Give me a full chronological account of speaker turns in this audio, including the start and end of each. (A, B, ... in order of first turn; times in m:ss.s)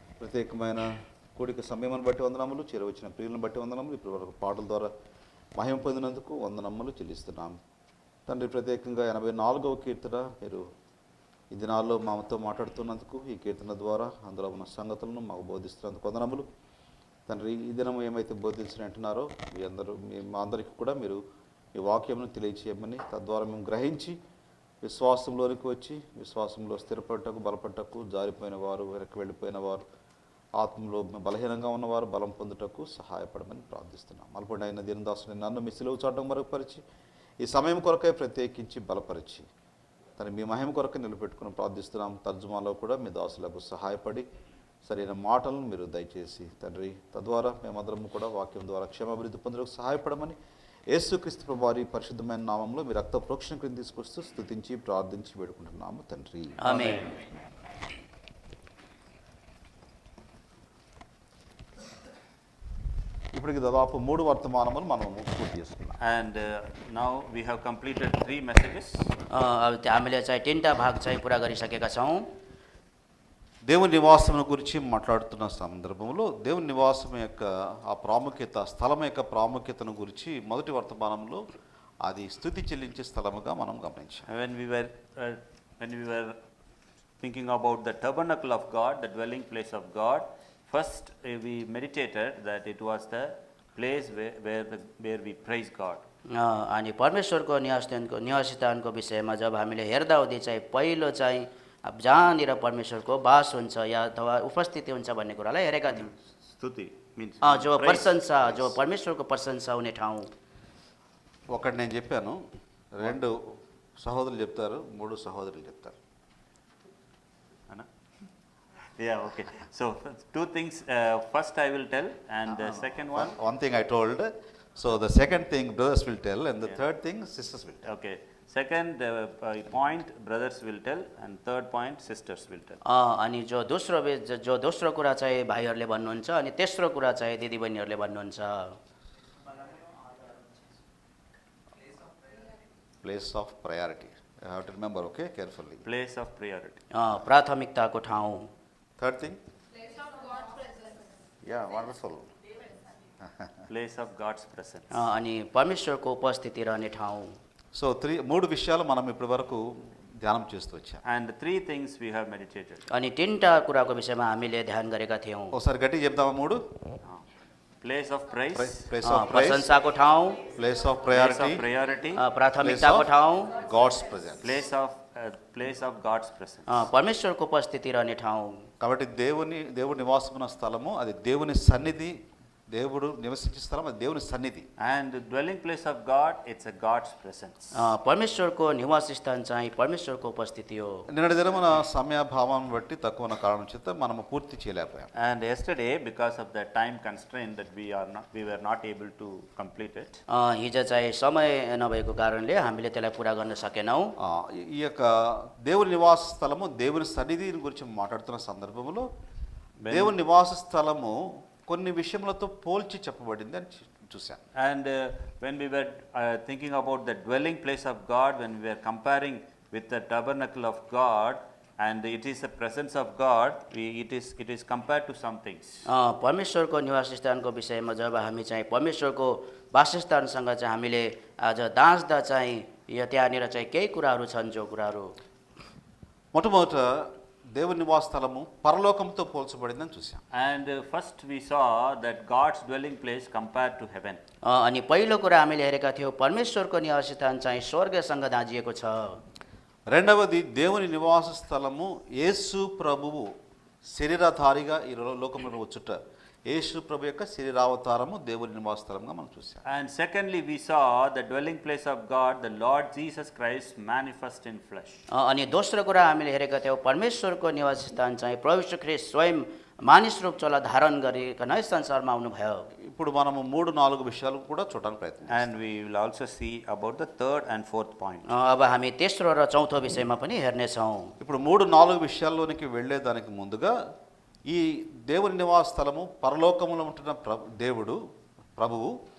0:00.2-0:04.9 A
0:05.6-0:07.6 A
0:08.3-0:10.6 A
0:11.5-0:16.5 A
0:17.3-0:21.2 A
0:21.8-0:24.2 A
0:24.8-0:29.8 A
0:30.6-0:36.8 A
0:37.4-0:39.5 A
0:40.2-0:44.2 A
0:44.8-0:50.4 A
0:50.9-0:57.0 A
0:56.6-0:57.1 B
1:03.3-1:06.0 A
1:06.0-1:09.1 C
1:09.3-1:12.2 B
1:13.7-1:21.4 A
1:22.0-1:24.3 A
1:24.3-1:26.4 C
1:27.2-1:36.0 C
1:36.3-1:46.1 B
1:46.5-1:48.2 C
1:47.4-1:50.3 B
1:51.5-1:52.4 A
1:52.9-1:56.0 A
1:59.0-2:03.4 C
2:02.5-2:07.9 A
2:07.8-2:12.8 C
2:12.8-2:18.8 B
2:23.0-2:25.8 A
2:25.8-2:26.8 C
2:26.9-2:28.5 B
2:29.0-2:29.4 A
2:31.4-2:32.3 A
2:33.7-2:34.9 C
2:34.9-2:37.3 B
2:37.8-2:41.0 A
2:41.1-2:42.9 C
2:42.9-2:45.6 B
2:45.5-2:46.6 A
2:47.8-2:48.9 C
2:48.6-2:49.8 A
2:49.0-2:50.5 B
2:50.4-2:51.7 A
2:51.1-2:52.2 C
2:52.1-2:53.6 B
2:52.6-2:54.6 A
2:54.4-2:56.8 C
2:56.7-2:58.7 B
2:58.8-3:02.2 A
3:02.7-3:04.7 A
3:04.8-3:07.7 C
3:07.7-3:11.1 B
3:11.1-3:15.1 A
3:15.2-3:20.2 C
3:20.3-3:24.1 B
3:24.2-3:29.1 A
3:29.8-3:30.1 C
3:29.9-3:34.4 A
3:34.6-3:45.8 C
3:45.9-3:55.2 B
3:56.3-4:00.2 A
4:00.3-4:04.2 C
4:04.4-4:09.2 B
4:09.9-4:13.3 A
4:13.8-4:19.6 A
4:19.7-4:25.0 C
4:25.1-4:32.7 B
4:32.8-4:35.5 A
4:35.3-4:38.3 C
4:38.3-4:41.1 B
4:41.2-4:43.8 A
4:44.5-4:48.0 A
4:48.6-4:48.9 A